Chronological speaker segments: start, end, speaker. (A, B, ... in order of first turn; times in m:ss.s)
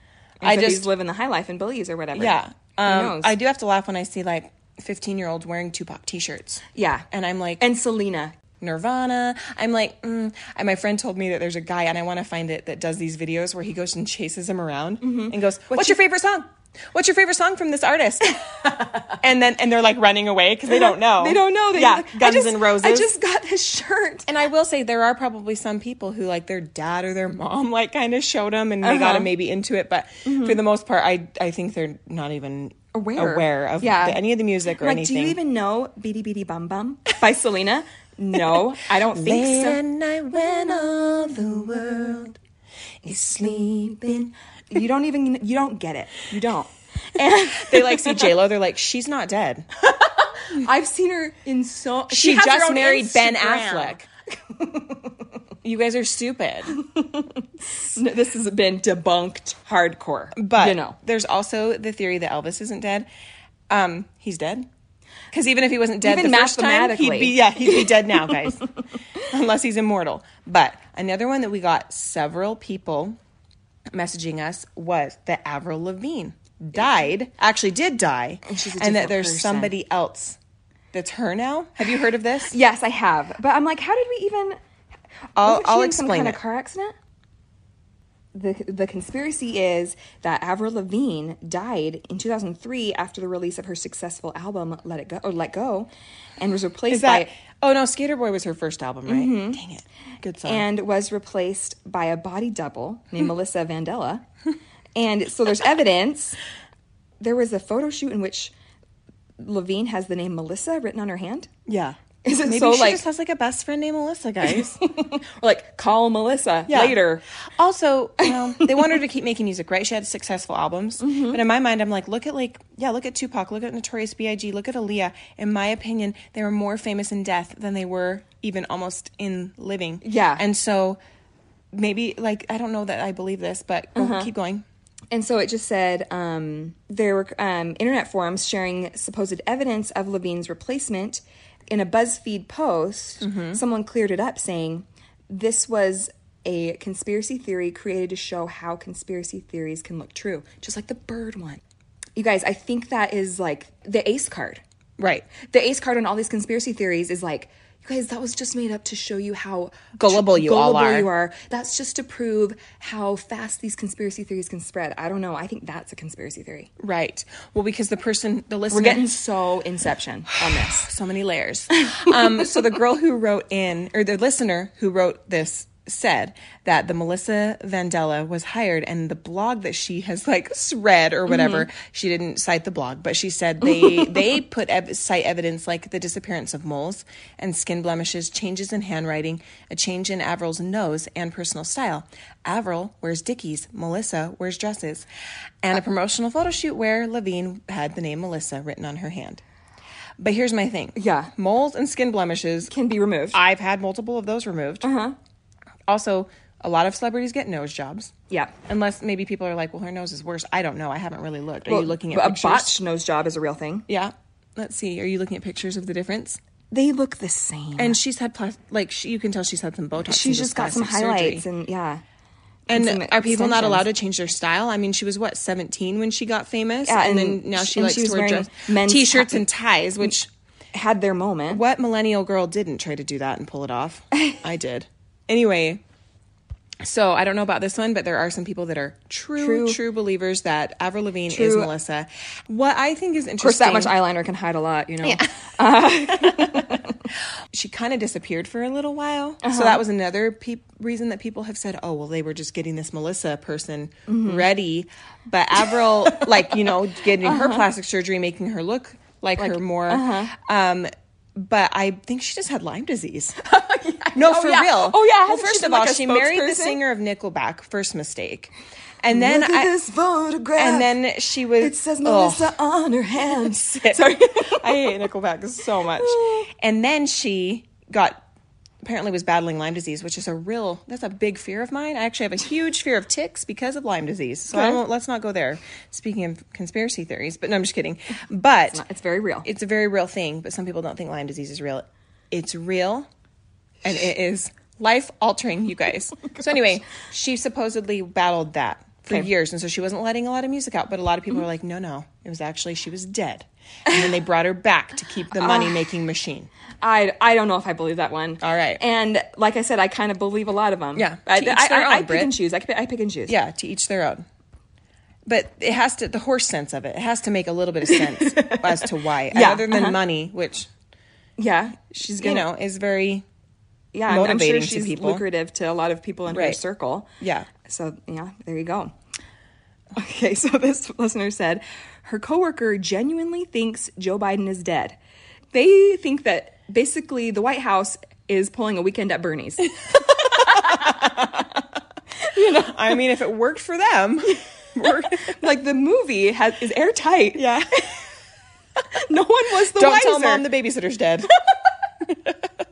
0:00.4-0:03.4 A
0:00.4-0:00.9 B
0:02.1-0:07.6 B
0:06.7-0:07.1 A
0:07.6-0:08.4 A
0:08.6-0:18.6 B
0:15.0-0:16.0 A
0:19.1-0:23.1 B
0:20.7-0:24.3 A
0:24.3-0:35.4 B
0:28.8-0:29.3 A
0:30.2-0:30.6 A
0:32.9-0:34.2 A
0:34.8-0:39.8 A
0:39.1-0:42.4 B
0:43.0-0:44.3 B
0:43.1-0:48.3 A
0:47.5-0:49.7 B
0:49.8-0:54.0 A
0:52.1-0:54.0 B
0:54.5-0:55.3 A
0:55.6-0:56.8 B
0:56.7-1:01.0 A
1:00.4-1:03.1 B
1:03.7-1:04.7 B
1:05.3-1:08.7 B
1:06.0-1:08.6 A
1:09.2-1:13.2 B
1:13.9-1:20.4 B
1:18.5-1:19.7 A
1:20.9-1:22.6 B
1:22.5-1:24.6 A
1:25.4-1:26.4 B
1:25.4-1:27.0 A
1:28.3-1:37.3 A
1:36.9-1:40.6 B
1:39.1-1:39.6 A
1:40.4-1:44.2 A
1:45.0-1:46.4 A
1:47.2-1:48.5 A
1:49.4-1:51.5 A
1:51.7-1:54.8 B
1:52.2-1:53.0 A
1:54.4-1:57.2 A
1:56.7-1:57.0 B
1:57.6-2:11.0 B
1:58.2-1:59.0 A
2:01.0-2:01.4 A
2:10.0-2:10.4 A
2:11.7-2:14.6 B
2:14.0-2:14.3 A
2:15.1-2:31.6 A
2:23.2-2:23.6 B
2:32.2-2:34.6 A
2:35.0-2:35.3 B
2:35.4-2:46.7 A
2:40.0-2:41.1 B
2:46.8-2:49.2 B
2:48.7-2:50.9 A
2:50.4-3:15.1 B
2:51.9-2:52.6 A
3:01.3-3:01.7 A
3:03.6-3:04.3 A
3:15.6-3:19.4 B
3:20.2-3:22.7 B
3:21.0-3:21.3 A
3:22.7-3:23.4 A
3:23.3-3:24.9 B
3:24.8-3:25.2 A
3:25.9-3:28.1 B
3:28.6-3:32.8 B
3:31.7-3:33.9 A
3:33.9-3:36.4 B
3:36.7-3:38.0 A
3:37.8-3:41.4 B
3:40.1-3:42.0 A
3:42.7-3:50.3 B
3:42.7-3:43.9 A
3:46.8-3:49.4 A
3:50.7-3:51.6 A
3:51.5-3:55.8 B
3:56.8-4:03.9 B
3:59.4-3:59.8 A
4:01.3-4:01.7 A
4:03.4-4:07.0 A
4:06.4-4:06.7 B
4:07.5-4:23.4 B
4:09.4-4:09.8 A
4:14.1-4:14.5 A
4:15.7-4:17.7 A
4:19.4-4:20.3 A
4:23.4-4:26.8 A
4:24.1-4:29.7 B
4:29.1-4:30.9 A
4:30.6-4:32.6 B
4:31.6-4:35.1 A
4:33.8-4:38.2 B
4:36.0-4:36.5 A
4:38.8-4:48.8 B
4:44.5-4:44.8 A
4:48.7-4:49.5 A
4:49.4-4:53.1 B
4:53.8-5:06.5 B
5:05.4-5:05.9 A
5:06.8-5:13.4 A
5:08.4-5:08.8 B
5:11.0-5:12.3 B
5:13.3-5:14.2 B
5:15.3-5:20.7 B
5:17.9-5:20.0 A
5:21.4-5:22.5 A
5:21.9-5:23.2 B
5:23.9-5:28.9 A
5:24.1-5:25.2 B
5:26.3-5:26.6 B
5:27.2-5:27.5 B
5:30.0-5:35.0 A
5:35.5-5:41.3 A
5:40.4-5:41.4 B
5:42.2-5:43.0 A
5:42.4-5:45.4 B
5:44.8-5:47.5 A
5:47.4-5:47.9 B
5:48.9-5:50.5 A
5:49.7-5:51.4 B
5:52.1-5:52.4 B